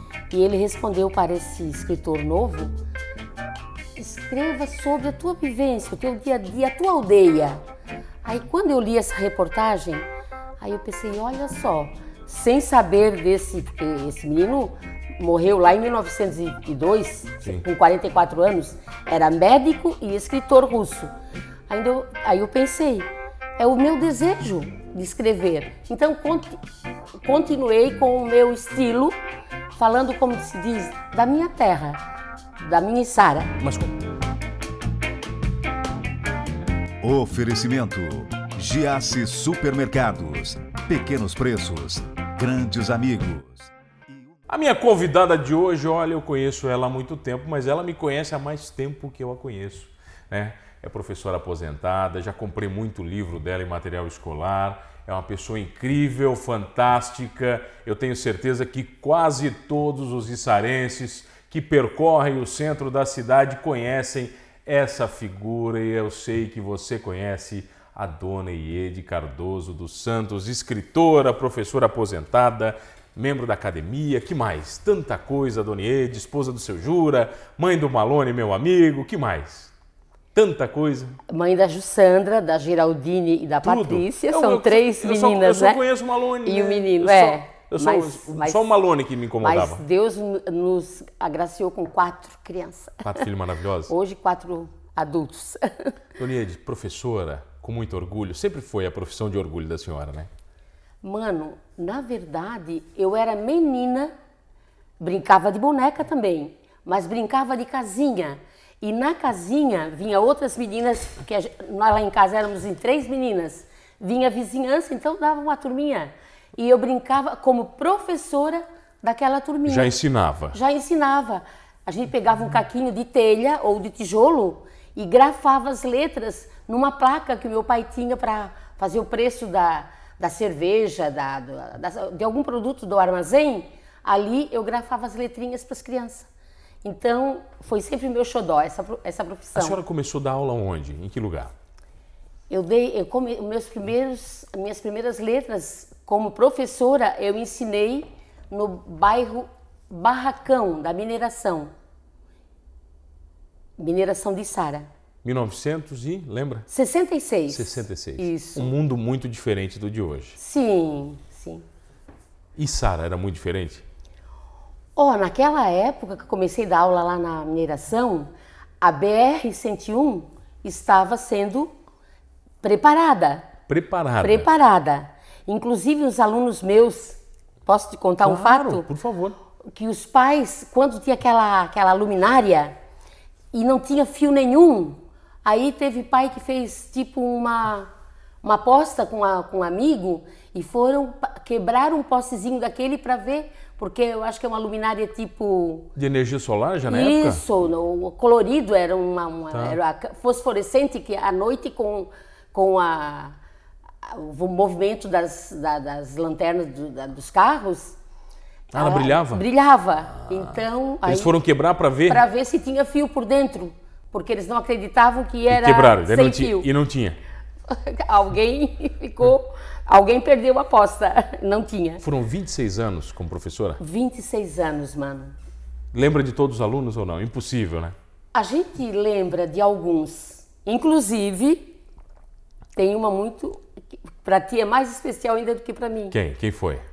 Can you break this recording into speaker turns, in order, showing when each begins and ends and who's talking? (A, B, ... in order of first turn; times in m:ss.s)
0:00.3-0:02.7 A
0:04.0-0:07.6 A
0:08.2-0:10.0 A
0:10.6-0:21.1 A
0:21.7-0:26.6 A
0:27.2-0:29.2 A
0:29.8-0:32.0 A
0:32.6-0:33.5 A
0:33.6-0:33.9 B
0:37.0-0:44.3 C
0:44.5-1:19.7 B
1:20.3-1:21.2 B
1:21.3-1:25.8 A
1:23.6-1:29.8 B
1:26.4-1:28.7 A
1:29.4-1:33.2 A
1:33.0-1:33.9 B
1:33.9-1:35.9 A
1:36.2-1:40.3 B
1:41.0-1:44.1 A
1:45.0-1:59.9 A
1:59.7-2:00.6 B
2:00.5-2:16.3 A
2:16.8-2:19.8 A
2:19.6-2:21.5 B
2:22.5-2:31.7 A
2:33.8-2:34.9 A
2:35.2-2:36.7 B
2:36.7-2:38.7 A
2:37.5-2:40.4 B
2:40.4-2:41.6 A
2:42.6-2:43.8 B
2:45.0-2:48.3 A
2:48.8-2:51.7 A
2:52.6-2:53.5 A
2:53.7-2:54.5 B
2:54.2-2:58.9 A
2:58.2-2:59.4 B
2:59.7-3:02.7 A
3:03.5-3:07.9 A
3:08.4-3:15.9 A
3:16.0-3:17.4 B
3:16.9-3:23.3 A
3:19.5-3:19.8 B
3:24.0-3:28.0 A
3:28.7-3:31.3 A
3:28.7-3:29.4 B
3:30.2-3:32.2 B
3:32.1-3:36.7 A
3:35.5-3:37.2 B
3:37.7-3:42.0 A
3:42.0-3:43.8 B
3:43.8-3:45.3 A
3:45.9-3:47.9 B
3:48.3-3:51.7 A
3:52.8-3:53.6 A
3:54.2-3:56.2 A
3:56.1-3:56.8 B